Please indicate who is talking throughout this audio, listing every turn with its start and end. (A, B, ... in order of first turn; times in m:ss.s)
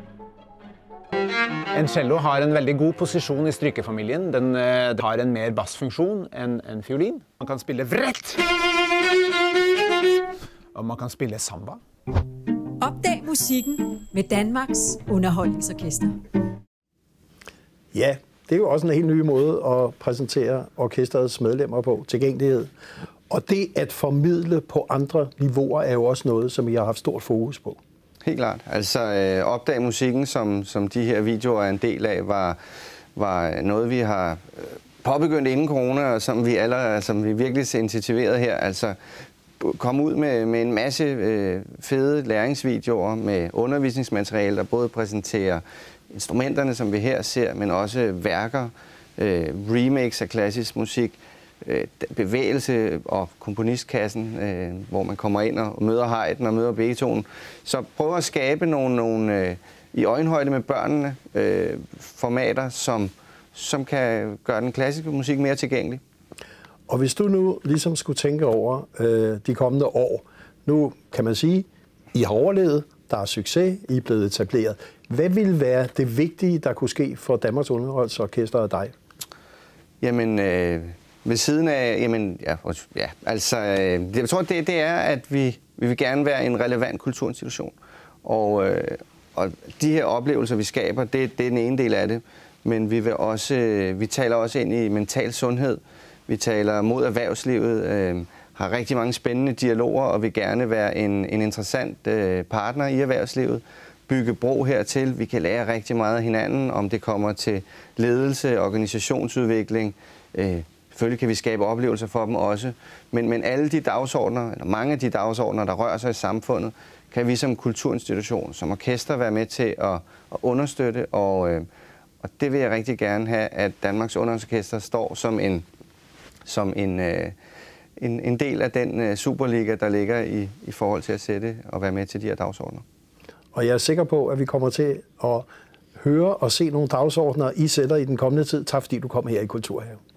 0:01.7-0:08.4 A
0:10.7-0:11.8 A
0:12.8-0:16.1 B
0:17.9-0:22.7 C
0:23.3-0:27.8 C
0:28.2-0:32.6 D
0:33.2-0:39.0 D
0:39.6-1:06.0 D
1:06.9-1:18.9 C
1:20.0-2:01.6 D
2:02.2-2:05.6 D
2:06.4-2:07.3 D
2:08.0-2:12.8 D
2:13.5-2:20.0 C